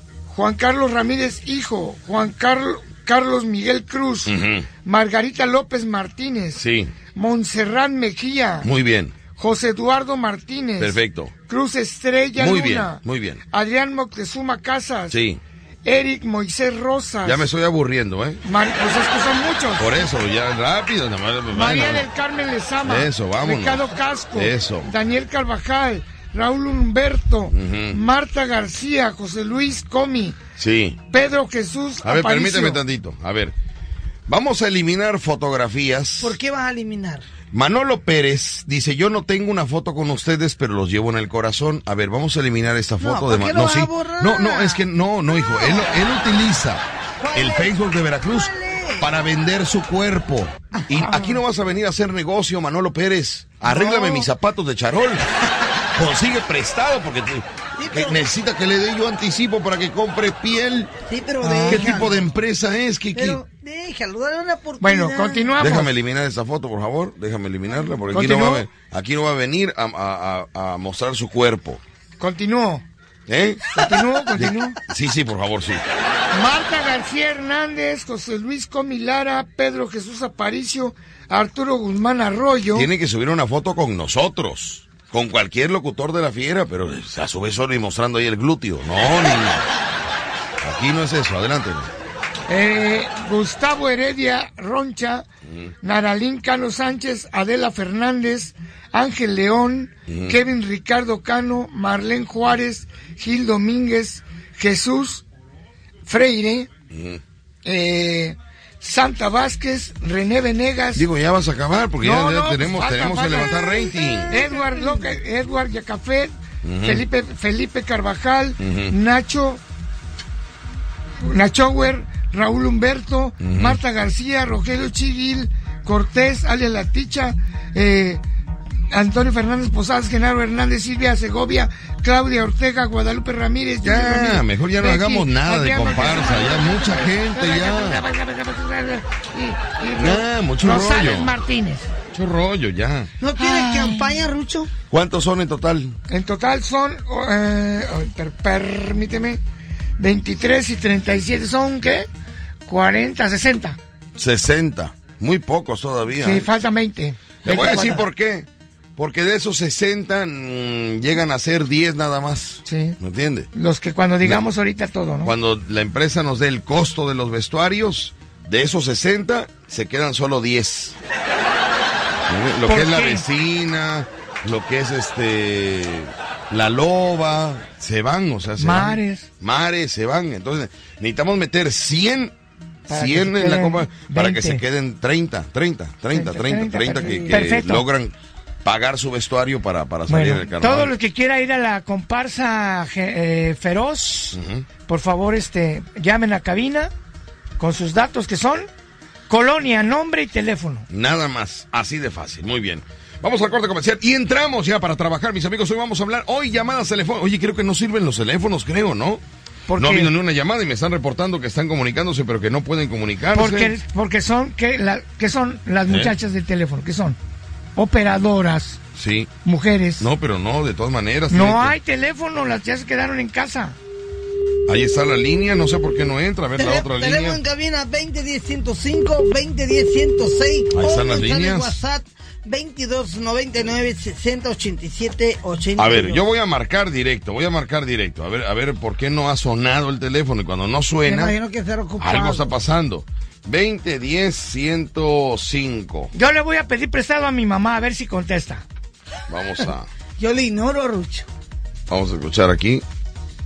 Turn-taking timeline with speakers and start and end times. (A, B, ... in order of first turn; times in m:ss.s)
0:00.3-0:06.6 A
0:04.3-0:04.7 B
0:06.6-0:06.9 B
0:07.2-0:08.7 A
0:08.6-0:09.2 B
0:09.4-0:15.2 A
0:10.8-0:11.3 B
0:12.4-0:13.4 B
0:15.1-0:15.4 B
0:15.8-0:17.5 A
0:17.2-0:18.4 B
0:18.4-0:20.0 A
0:19.8-0:22.0 B
0:21.5-0:30.4 A
0:22.8-0:24.9 B
0:27.5-0:28.0 B
0:30.6-0:31.0 B
0:31.1-0:32.8 A
0:32.0-0:33.5 B
0:34.3-0:36.4 B
0:36.2-0:37.2 C
0:37.5-0:55.3 B
0:43.0-0:44.8 C
0:45.5-0:46.1 C
0:47.2-0:49.1 C
0:50.7-0:51.1 C
0:53.6-0:54.3 C
0:55.4-0:55.9 C
0:55.9-1:00.9 B
0:57.8-0:58.2 C
1:01.0-1:02.3 C
1:01.4-1:02.1 A
1:01.7-1:03.4 B
1:03.1-1:05.5 C
1:04.8-1:05.9 A
1:05.6-1:11.8 B
1:08.1-1:08.6 A
1:12.2-1:12.8 A
1:13.3-1:13.6 B
1:13.8-1:14.8 A
1:14.4-1:15.8 B
1:16.3-1:22.9 A
1:22.7-1:29.7 B
1:30.6-1:31.9 B
1:32.5-1:35.2 A
1:35.8-1:45.2 A
1:40.1-1:40.4 B
1:46.1-1:46.7 A
1:46.9-1:47.2 B
1:47.6-1:51.1 A
1:51.0-1:54.4 B
1:52.0-1:56.3 A
1:56.6-1:57.1 B
1:56.8-1:59.6 A
1:58.6-1:58.9 B
2:01.2-2:08.2 A
2:03.4-2:03.8 B
2:08.9-2:21.9 A
2:13.8-2:18.0 B
2:20.0-2:21.3 B
2:22.1-2:23.1 B
2:23.2-2:24.7 C
2:23.4-2:24.3 A
2:24.9-2:26.0 B
2:26.1-2:29.4 A
2:30.0-2:32.1 A
2:32.7-2:33.8 A
2:34.2-2:36.5 B
2:36.2-2:38.1 A
2:37.4-2:43.5 B
2:42.7-2:43.0 A
2:43.5-2:45.3 A
2:45.2-2:51.0 B
2:52.3-3:02.3 B
2:52.7-2:53.2 A
2:58.6-2:59.3 A
3:02.9-3:04.6 A
3:02.9-3:10.9 B
3:06.1-3:07.9 A
3:07.0-3:07.4 C
3:10.1-3:16.9 A
3:14.3-3:14.7 B
3:17.6-3:18.7 A
3:19.3-3:20.9 A
3:20.9-3:29.2 B
3:29.7-3:30.1 A
3:29.8-3:33.7 B
3:33.4-3:37.2 A
3:35.9-3:36.1 B
3:37.8-3:38.8 A
3:39.0-3:39.3 B
3:39.4-3:40.1 A
3:40.0-3:41.7 B
3:41.3-3:43.8 A
3:44.7-3:47.4 B
3:46.6-3:56.2 C
3:50.7-3:51.8 B
3:55.8-4:01.4 B
4:01.0-4:02.5 C
4:02.0-4:06.1 B
4:06.1-4:08.6 A
4:09.3-4:09.9 B
4:10.2-4:11.3 C
4:11.9-4:12.8 B